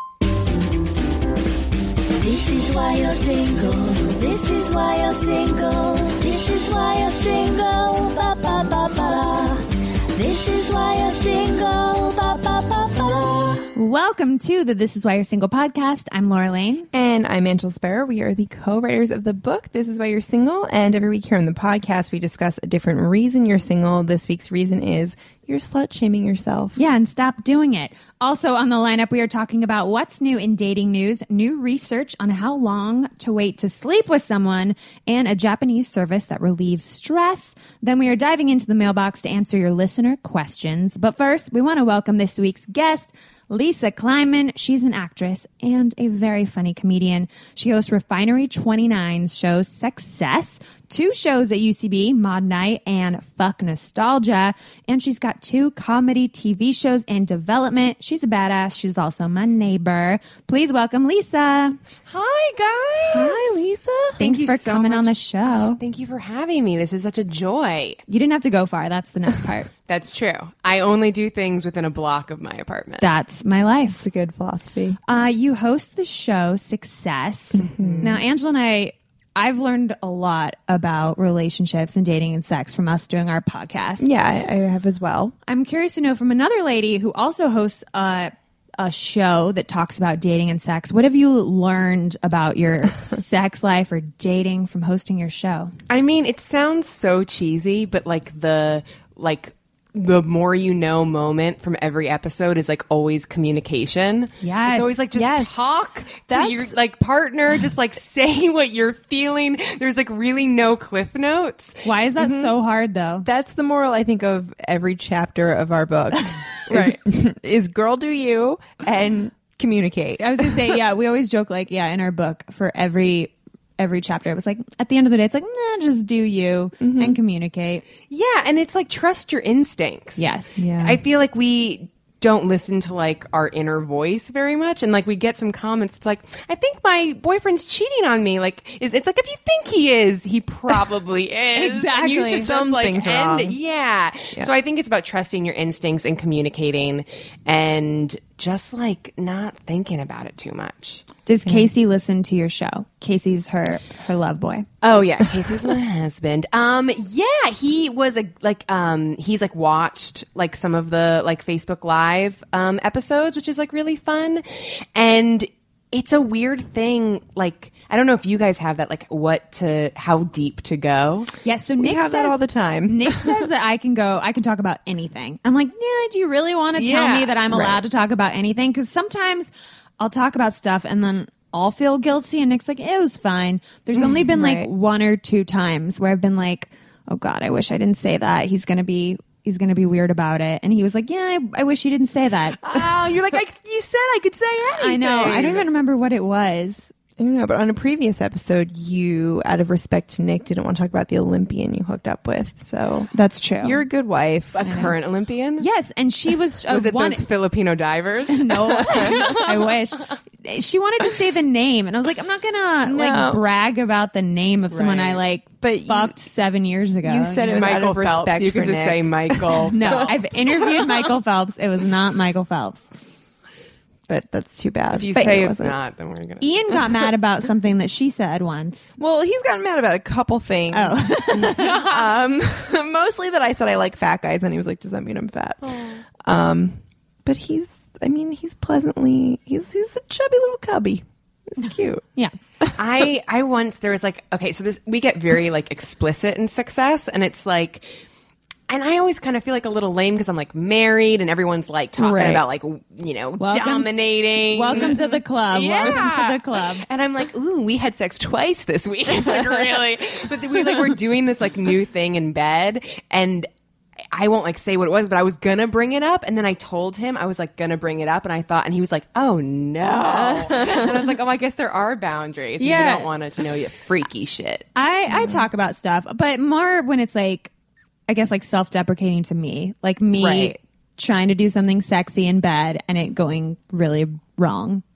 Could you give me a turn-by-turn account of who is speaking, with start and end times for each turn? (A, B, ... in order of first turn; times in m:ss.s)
0:02.1-0:09.6 A
0:10.1-0:13.7 A
0:13.7-0:16.9 B
0:16.9-0:26.8 C
0:26.8-1:01.8 B
1:02.1-1:03.6 D
1:03.1-1:04.2 C
1:04.2-1:05.1 D
1:04.2-1:05.8 B
1:05.8-1:08.0 D
1:08.1-1:09.7 B
1:09.9-1:13.1 D
1:13.0-1:14.0 B
1:13.9-1:15.0 C
1:15.1-1:24.1 B
1:17.5-1:18.2 C
1:17.8-1:18.2 D
1:24.0-1:25.3 C
1:25.5-1:35.7 B
1:35.9-1:51.8 D
1:44.4-1:45.0 B
1:45.1-1:45.6 C
1:46.3-1:46.7 C
1:51.8-1:53.3 B
1:52.2-1:52.5 C
1:53.2-2:00.8 C
1:56.7-1:57.0 D
2:00.2-2:07.8 B
2:06.8-2:07.2 C
2:08.1-2:31.1 D
2:10.2-2:10.6 B
2:10.6-2:11.0 C
2:21.6-2:22.5 B
2:22.3-2:23.6 C
2:31.3-2:34.7 B
2:34.8-2:51.3 D
2:51.4-3:12.9 B
2:51.8-2:53.4 C
2:56.8-2:57.3 D
2:57.4-2:57.8 C
3:04.0-3:04.7 C
3:12.6-3:15.6 D
3:14.7-3:15.6 C
3:14.8-3:16.9 B
3:17.2-3:23.1 C
3:23.1-3:23.8 B
3:23.6-3:24.6 C
3:24.5-3:25.7 D
3:24.6-3:24.9 B
3:25.6-3:27.3 B
3:26.7-3:29.7 D
3:28.3-3:37.6 B
3:28.8-3:29.3 C
3:32.8-3:33.4 C
3:34.7-3:35.2 D
3:35.6-3:36.1 C
3:37.0-3:40.9 C
3:37.5-3:40.2 D
3:39.7-3:42.8 B
3:44.1-3:45.8 C
3:44.9-3:46.8 D
3:46.4-3:49.0 B
3:49.0-4:02.0 C
3:50.7-3:51.9 B
3:55.6-3:56.0 D
4:02.8-4:07.9 D
4:08.7-4:23.5 D
4:12.0-4:12.4 C
4:13.4-4:13.9 B
4:14.5-4:16.8 B
4:19.2-4:19.8 C
4:24.1-4:34.7 D
4:30.0-4:31.1 C
4:32.6-4:33.1 B
4:34.8-4:37.5 B
4:35.1-4:35.4 C
4:38.1-4:44.8 B
4:40.1-4:40.6 C